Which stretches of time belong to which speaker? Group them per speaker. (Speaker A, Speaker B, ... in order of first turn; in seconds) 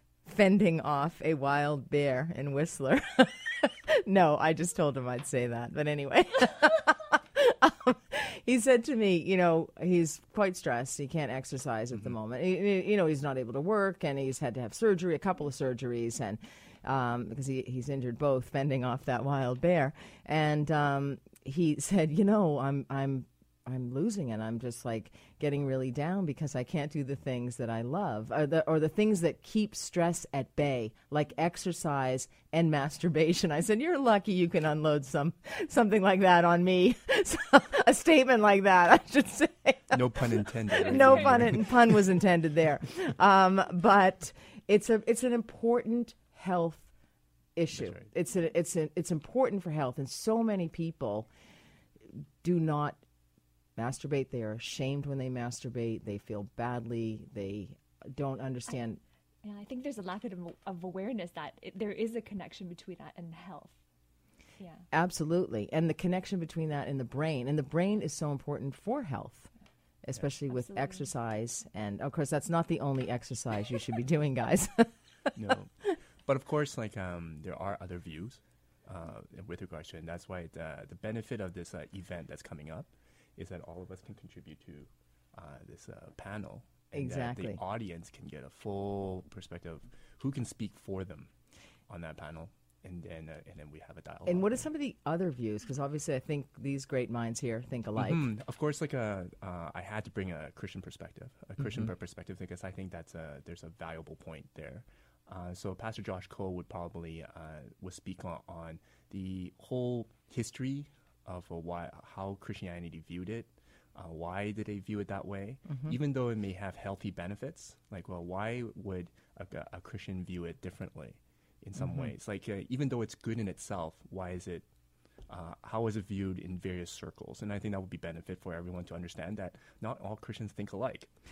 Speaker A: 0.2-40.0, 40.7-46.9, 47.5-51.3, 52.4-53.0, 53.8-59.0, 64.9-69.5, 70.0-75.3, 86.9-87.6, 94.2-98.2, 101.6-101.9, 115.7-115.9, 121.8-122.1
Speaker B: 39.9-42.0, 47.7-48.1, 75.3-91.3, 91.9-94.6, 98.0-124.7, 125.3-131.1
Speaker C: 40.9-41.4, 59.4-63.8, 64.6-64.8, 70.5-71.0